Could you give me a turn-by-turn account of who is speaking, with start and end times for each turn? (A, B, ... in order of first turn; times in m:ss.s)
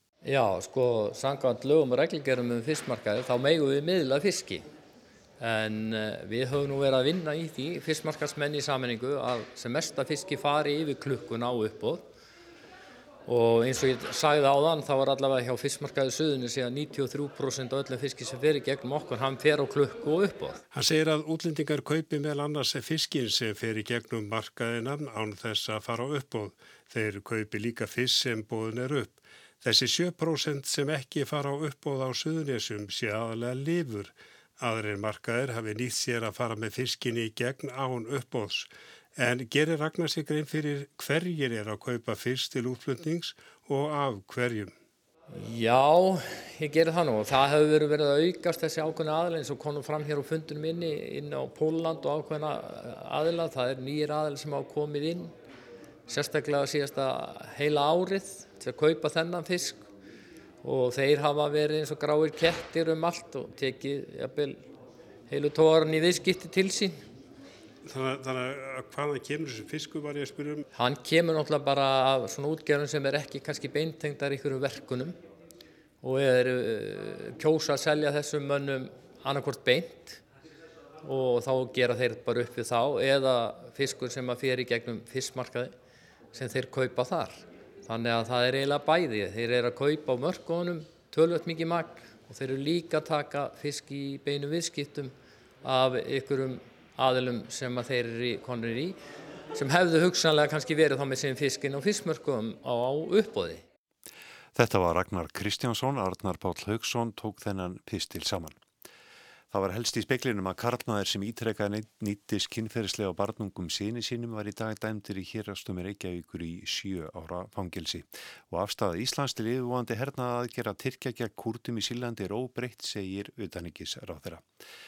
0:00.2-0:04.7 A
0:05.4-0:12.1 A
0:13.3-0:20.6 A
0:20.7-0:44.7 B
0:45.3-0:55.3 A
0:56.1-0:59.9 A
1:00.6-1:04.7 A
1:05.3-1:07.0 A
1:07.9-1:10.6 B
1:10.8-1:15.2 A
1:16.0-1:20.2 A
1:21.0-1:25.7 A
1:26.3-1:39.0 A
1:39.5-1:43.6 A
1:44.6-1:48.6 C
1:49.5-2:04.4 C